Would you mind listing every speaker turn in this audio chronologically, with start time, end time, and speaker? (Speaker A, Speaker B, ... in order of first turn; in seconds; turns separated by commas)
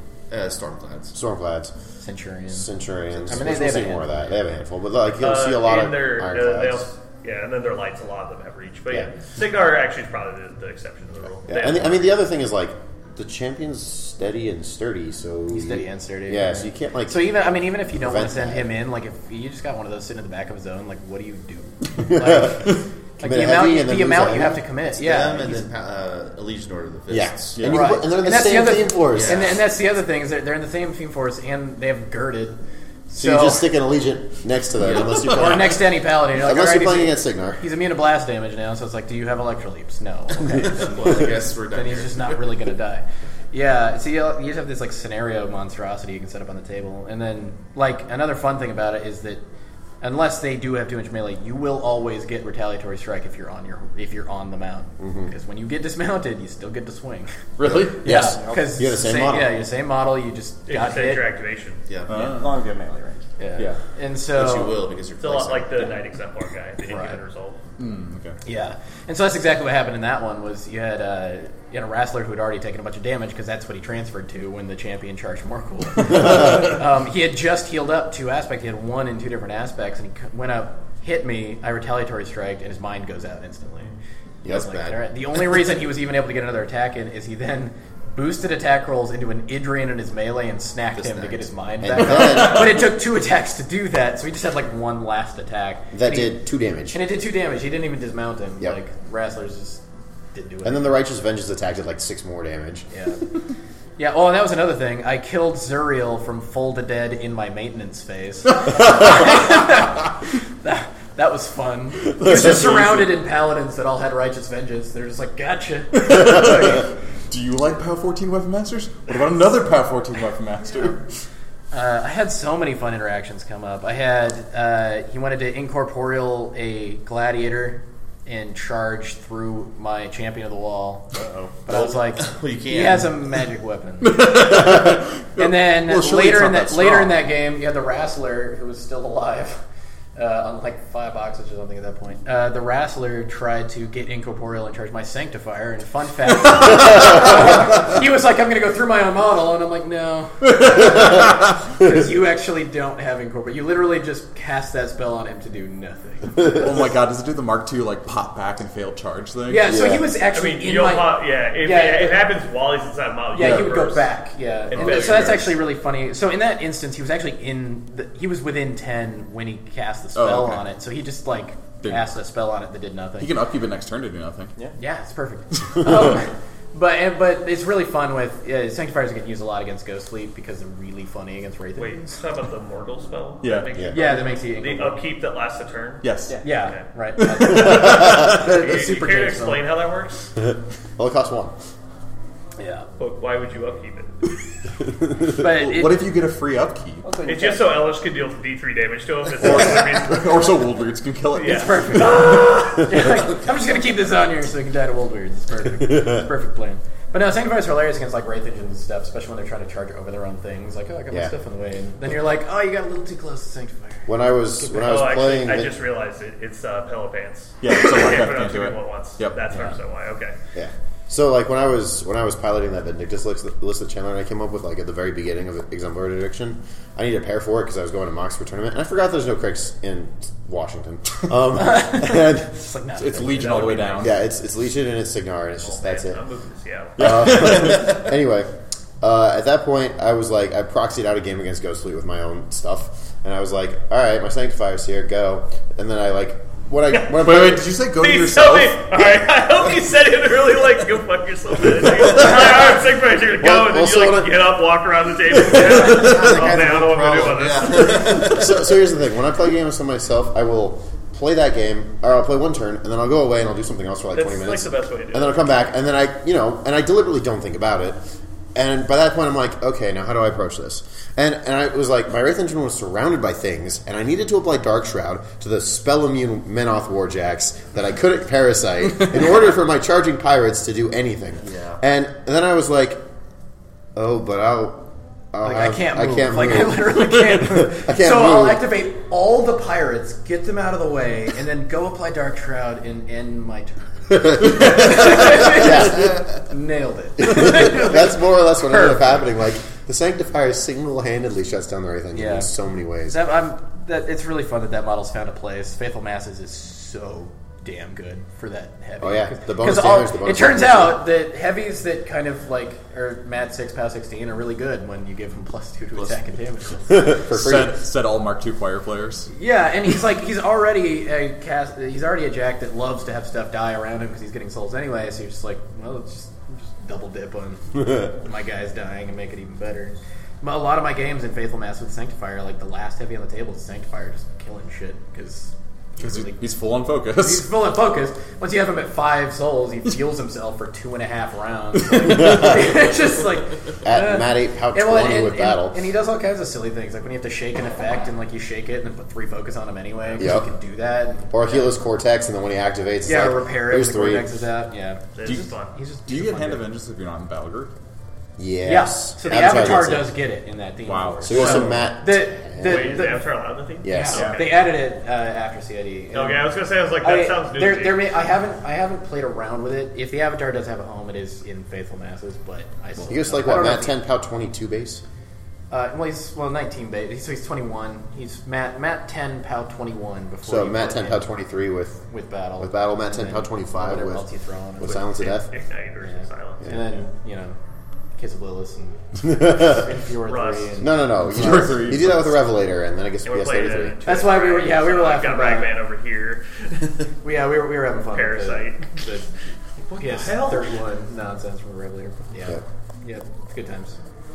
Speaker A: 0.3-1.1, Speaker B: 1.1-1.7, Speaker C: 2.0-2.7, Speaker B: 2.5-6.9, Speaker C: 3.3-4.1, Speaker D: 5.2-12.1, Speaker B: 11.5-18.7, Speaker C: 15.5-25.7, Speaker B: 22.0-22.7, Speaker B: 23.2-24.6, Speaker A: 24.9-27.6, Speaker B: 27.1-29.5, Speaker E: 27.6-27.9, Speaker C: 27.7-32.6, Speaker A: 29.1-29.6, Speaker C: 33.1-33.7, Speaker B: 33.1-37.6, Speaker A: 34.9-35.5, Speaker C: 35.2-49.4, Speaker A: 40.6-42.4, Speaker C: 50.0-57.3, Speaker B: 55.0-55.3, Speaker E: 57.6-58.3, Speaker B: 57.7-59.6, Speaker C: 57.9-61.3, Speaker F: 58.4-58.8, Speaker D: 60.7-61.8, Speaker A: 61.9-62.4, Speaker E: 62.1-62.5, Speaker F: 62.2-63.2, Speaker C: 63.4-64.8, Speaker A: 64.3-66.0, Speaker D: 65.2-67.6, Speaker C: 66.8-67.2, Speaker E: 67.8-68.4, Speaker C: 68.5-83.9, Speaker B: 84.4-84.7, Speaker A: 84.5-85.0, Speaker C: 84.5-96.4, Speaker A: 91.0-91.4, Speaker B: 91.8-92.8, Speaker B: 95.9-97.0, Speaker C: 96.9-99.8, Speaker C: 100.3-101.0, Speaker B: 100.6-102.9, Speaker C: 102.9-103.2, Speaker C: 104.0-110.1, Speaker C: 110.6-116.9, Speaker E: 112.2-113.1, Speaker E: 116.0-121.0, Speaker C: 121.7-131.1, Speaker F: 131.2-131.5, Speaker C: 131.7-134.7, Speaker A: 131.7-133.2, Speaker E: 134.0-137.2, Speaker C: 135.4-139.6, Speaker C: 140.2-156.4, Speaker E: 156.5-159.8, Speaker C: 159.5-162.2, Speaker B: 159.7-160.0, Speaker D: 160.3-164.1, Speaker C: 163.3-173.3, Speaker E: 163.4-163.8, Speaker D: 164.7-165.4, Speaker E: 164.8-165.5, Speaker E: 170.2-170.6, Speaker E: 173.2-174.5, Speaker C: 174.8-182.2, Speaker D: 181.8-186.0, Speaker E: 183.4-183.7, Speaker C: 183.9-185.0, Speaker E: 186.0-186.4, Speaker C: 186.4-189.6, Speaker E: 187.2-188.4, Speaker D: 187.5-190.3, Speaker B: 190.4-191.6, Speaker C: 192.6-192.9, Speaker D: 193.0-194.1, Speaker C: 195.4-196.0, Speaker E: 195.4-197.1, Speaker F: 197.0-197.8, Speaker D: 197.3-200.4, Speaker E: 199.4-202.3, Speaker D: 201.4-202.8, Speaker C: 201.4-215.0, Speaker B: 205.7-206.3, Speaker B: 214.1-215.7, Speaker D: 214.8-220.3, Speaker E: 217.6-219.4, Speaker B: 220.5-232.6, Speaker C: 231.5-234.1, Speaker E: 233.0-234.2, Speaker B: 234.0-236.2, Speaker D: 235.6-237.0, Speaker E: 237.0-238.0, Speaker B: 237.0-238.5, Speaker B: 239.0-247.7, Speaker E: 247.2-248.8, Speaker D: 248.0-258.3, Speaker B: 253.4-254.3, Speaker A: 255.7-258.6, Speaker B: 257.6-268.0, Speaker D: 264.1-265.5, Speaker B: 268.6-283.0, Speaker A: 281.4-281.8, Speaker B: 283.9-288.6, Speaker C: 285.4-299.1, Speaker B: 294.1-296.2, Speaker B: 297.2-303.2, Speaker C: 302.1-302.5, Speaker C: 303.1-317.1, Speaker B: 309.0-311.0, Speaker B: 316.9-317.8, Speaker E: 317.3-319.3, Speaker C: 319.3-336.4, Speaker E: 336.0-337.5, Speaker C: 337.1-351.7, Speaker E: 341.7-342.6, Speaker B: 342.2-342.7, Speaker B: 343.8-345.8, Speaker B: 350.2-350.4, Speaker B: 351.3-354.3, Speaker C: 353.1-356.7, Speaker D: 355.2-355.8, Speaker E: 356.1-357.7, Speaker B: 358.4-360.1, Speaker C: 358.6-363.3, Speaker E: 360.9-361.8, Speaker B: 361.2-363.0, Speaker D: 362.6-364.7, Speaker B: 363.8-364.3, Speaker C: 363.9-373.9, Speaker D: 366.1-368.0, Speaker B: 373.1-375.0, Speaker C: 375.7-381.3, Speaker B: 380.4-382.1, Speaker C: 382.1-385.0, Speaker B: 382.6-384.3, Speaker B: 384.8-385.5, Speaker D: 384.8-386.7, Speaker C: 386.0-387.6, Speaker B: 386.6-386.9, Speaker C: 388.2-390.9, Speaker B: 389.2-389.9, Speaker D: 390.3-390.8, Speaker B: 390.8-394.0, Speaker E: 391.2-392.3, Speaker D: 393.2-396.9, Speaker C: 394.1-395.7, Speaker C: 397.2-399.3, Speaker D: 398.1-399.0, Speaker C: 399.9-404.0, Speaker D: 399.9-400.7